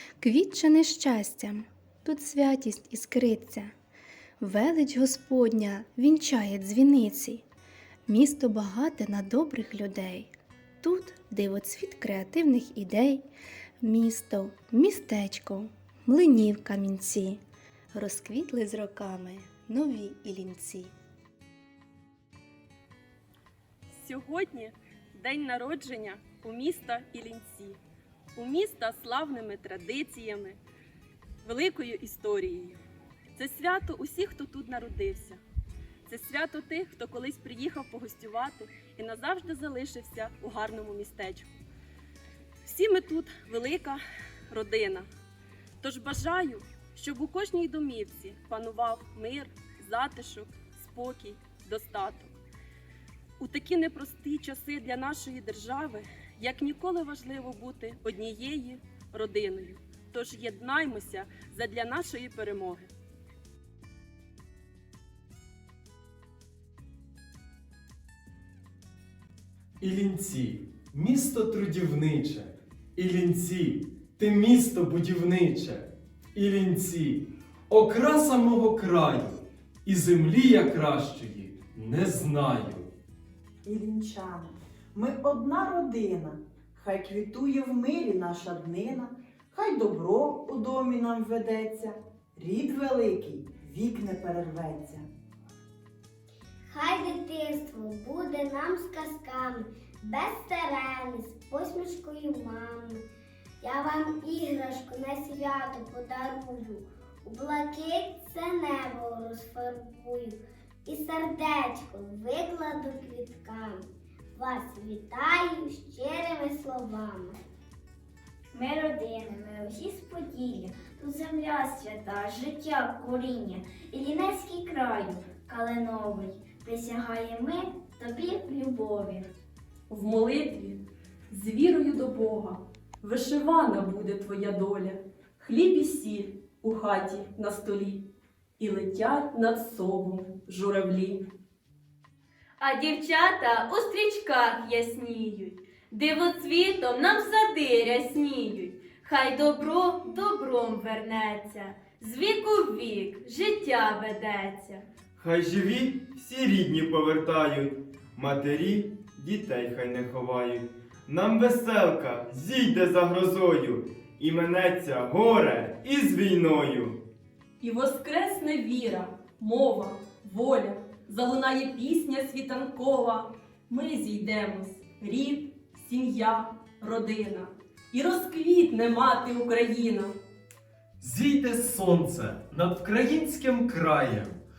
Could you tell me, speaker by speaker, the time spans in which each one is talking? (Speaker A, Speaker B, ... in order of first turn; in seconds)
Speaker A: 0.2-3.7, 4.4-7.4, 8.1-13.3, 13.8-17.4, 17.9-20.9
Speaker B: 23.9-27.8, 28.4-30.6, 31.4-32.8, 33.4-35.4, 36.1-41.5, 42.6-45.1, 45.8-52.4, 53.4-62.9, 129.9-138.1, 138.6-141.2, 167.6-180.1
Speaker C: 69.8-82.9, 181.0-184.4
Speaker D: 83.6-95.1
Speaker E: 96.7-103.0, 103.6-117.4
Speaker F: 118.5-129.3
Speaker G: 142.6-154.8
Speaker H: 155.2-167.0